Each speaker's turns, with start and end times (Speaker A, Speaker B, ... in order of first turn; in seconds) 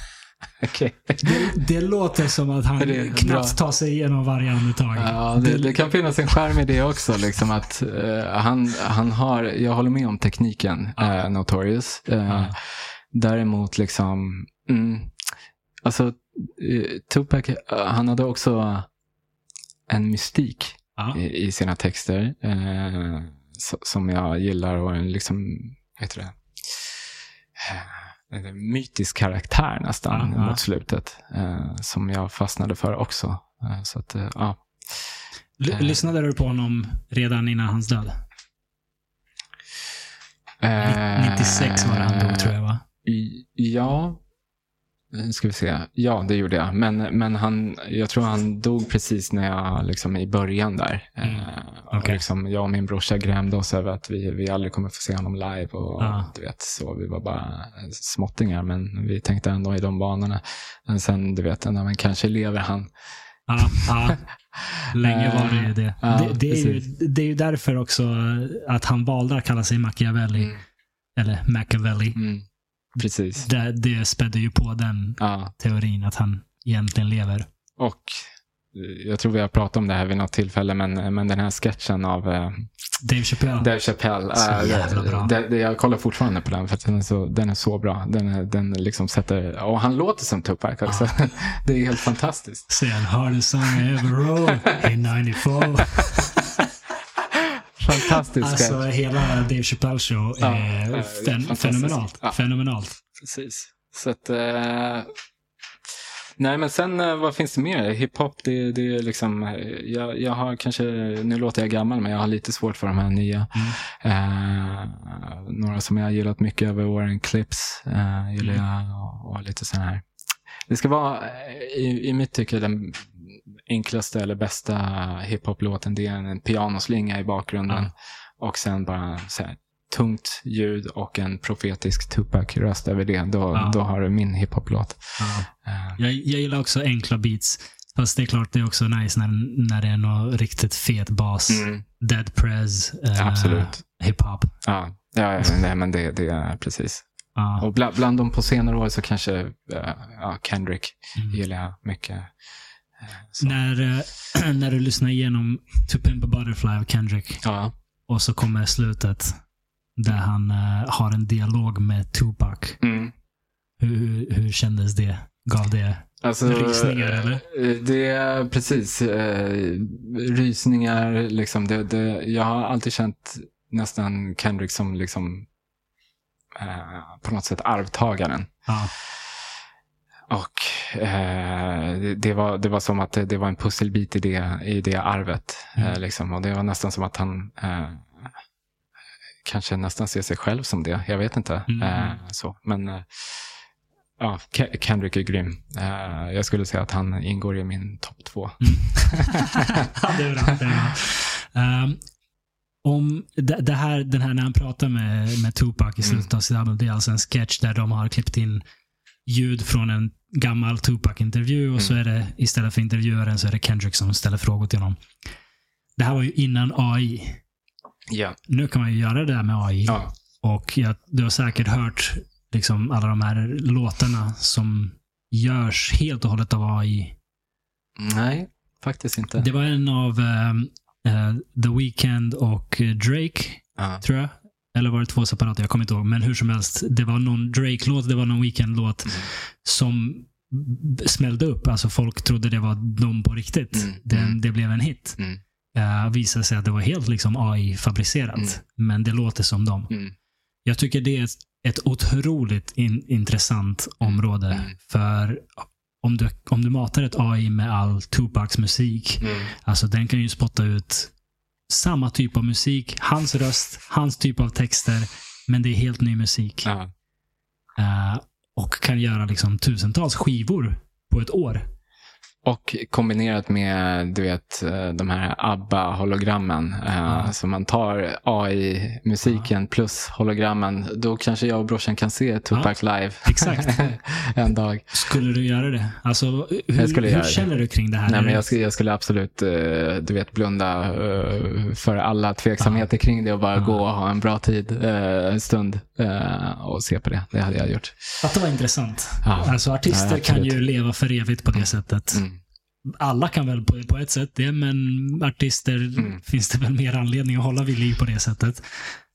Speaker A: 0.6-1.5, 2.8-3.6, 5.0-15.1, 15.8-18.9, 19.9-26.9, 27.6-35.1, 35.7-36.0, 40.6-42.5, 43.0-44.2, 45.1-62.9, 64.5-66.8, 72.1-73.5, 75.2-75.5, 77.8-78.2, 78.7-82.7, 83.6-92.7, 97.8-98.9, 100.4-102.4, 103.2-105.1, 106.4-120.0, 120.7-136.0, 141.5-141.8, 143.1-143.8, 144.6-147.1, 147.6-152.3, 153.0-153.6, 157.4-157.7, 162.8-163.1, 166.2-175.5, 176.6-178.5, 180.3-188.3, 189.4-193.4, 194.2-199.9, 206.0-206.3, 218.1-218.4, 228.0-229.5, 243.7-244.4, 254.0-254.7, 259.2-259.5, 266.6-266.9, 272.4-284.9, 286.8-287.5, 288.1-298.0, 299.2-300.6, 301.5-302.4
Speaker B: 1.2-5.7, 12.3-12.5, 30.1-30.6, 35.6-38.2, 40.8-42.8, 51.2-52.2, 56.0-56.3, 63.5-64.2, 64.9-70.6, 71.2-72.2, 73.4-77.5, 83.0-83.7, 84.3-85.3, 92.7-96.6, 98.4-103.0, 133.5-133.8, 135.2-144.5, 147.3-147.7, 153.4-157.4, 158.1-159.4, 160.0-162.8, 163.8-167.4, 178.7-178.9, 191.7-192.2, 198.6-202.0, 202.8-208.6, 209.2-215.0, 216.0-217.4, 218.5-227.2, 229.3-245.2, 245.7-249.9, 250.6-261.1, 261.7-266.7, 267.8-271.7, 282.5-283.7, 284.9-288.5, 292.6-292.9, 298.2-302.2, 302.9-308.9